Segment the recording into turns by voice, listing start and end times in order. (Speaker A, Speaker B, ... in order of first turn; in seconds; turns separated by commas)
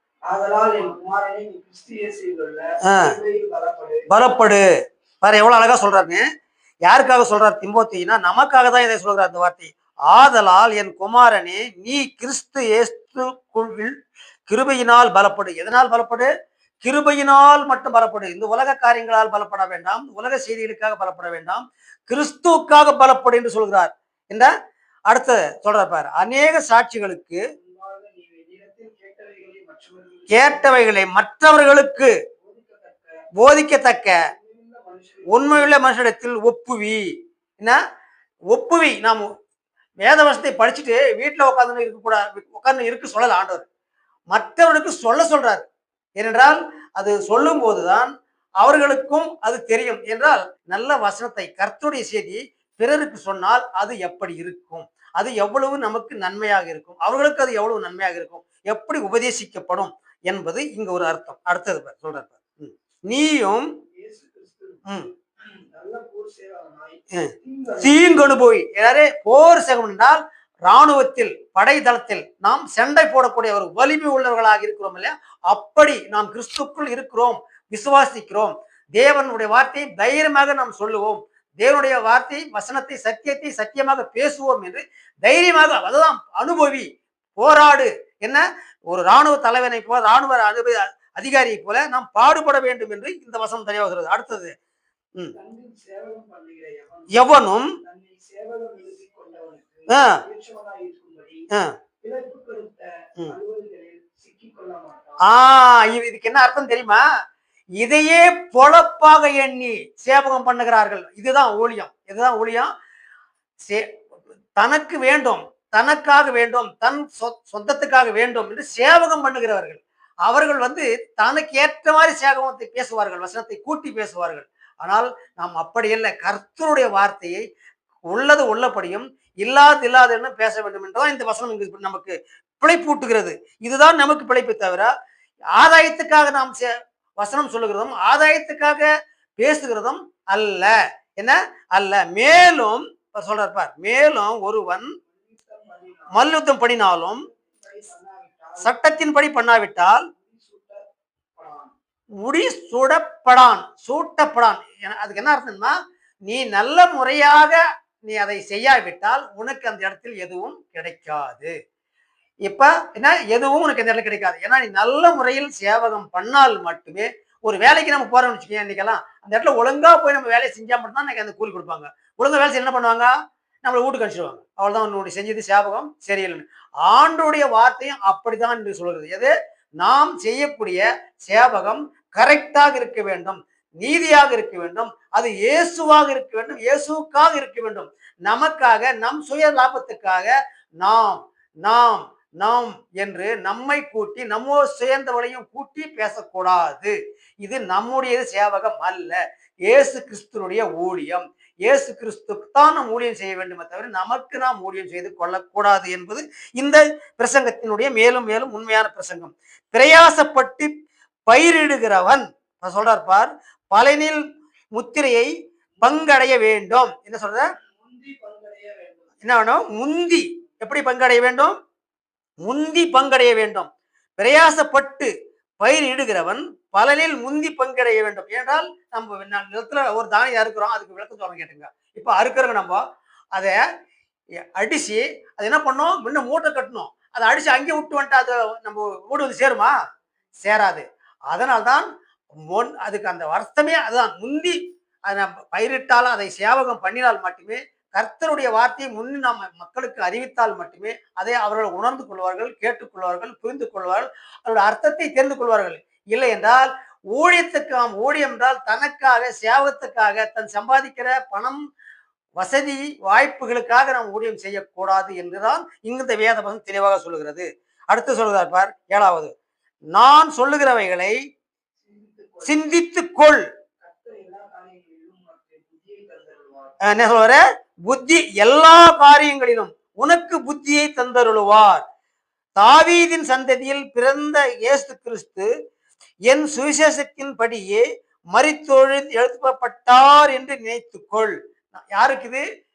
Speaker A: 0.3-4.1, Speaker B: 4.1-4.6, Speaker B: 5.2-6.2, Speaker B: 6.9-13.9, Speaker B: 14.5-16.3, Speaker B: 16.8-24.5, Speaker B: 25.1-27.4, Speaker A: 27.6-30.7, Speaker B: 30.3-32.1, Speaker A: 32.4-33.3, Speaker B: 33.4-34.2, Speaker A: 34.2-35.8, Speaker B: 35.3-37.0, Speaker B: 38.5-39.3, Speaker B: 40.0-43.7, Speaker B: 44.3-45.6, Speaker B: 46.2-48.1, Speaker B: 48.6-63.7, Speaker A: 64.0-68.3, Speaker B: 67.1-94.5, Speaker A: 95.3-101.5, Speaker B: 97.1-97.8, Speaker B: 99.9-100.2, Speaker A: 102.0-105.2, Speaker B: 105.2-107.0, Speaker B: 107.8-112.7, Speaker B: 114.6-127.4, Speaker B: 128.1-134.9, Speaker B: 135.6-144.9, Speaker A: 145.1-146.3, Speaker B: 146.1-147.3, Speaker A: 147.2-148.7, Speaker B: 148.6-150.1, Speaker A: 150.2-150.8, Speaker A: 151.4-151.7, Speaker B: 152.2-155.7, Speaker B: 156.3-161.5, Speaker B: 162.5-173.1, Speaker B: 173.6-210.7, Speaker B: 211.3-214.2, Speaker B: 214.7-215.3, Speaker B: 215.8-217.5, Speaker A: 217.6-219.1, Speaker B: 219.2-221.6, Speaker B: 222.4-223.7, Speaker B: 224.2-232.8, Speaker B: 234.6-239.7, Speaker B: 240.4-241.9, Speaker B: 242.5-261.6, Speaker B: 262.4-269.3, Speaker B: 269.9-271.2, Speaker A: 271.8-272.7, Speaker B: 272.4-273.4, Speaker A: 273.8-276.8, Speaker B: 276.8-281.8, Speaker B: 282.6-285.5, Speaker B: 286.3-292.4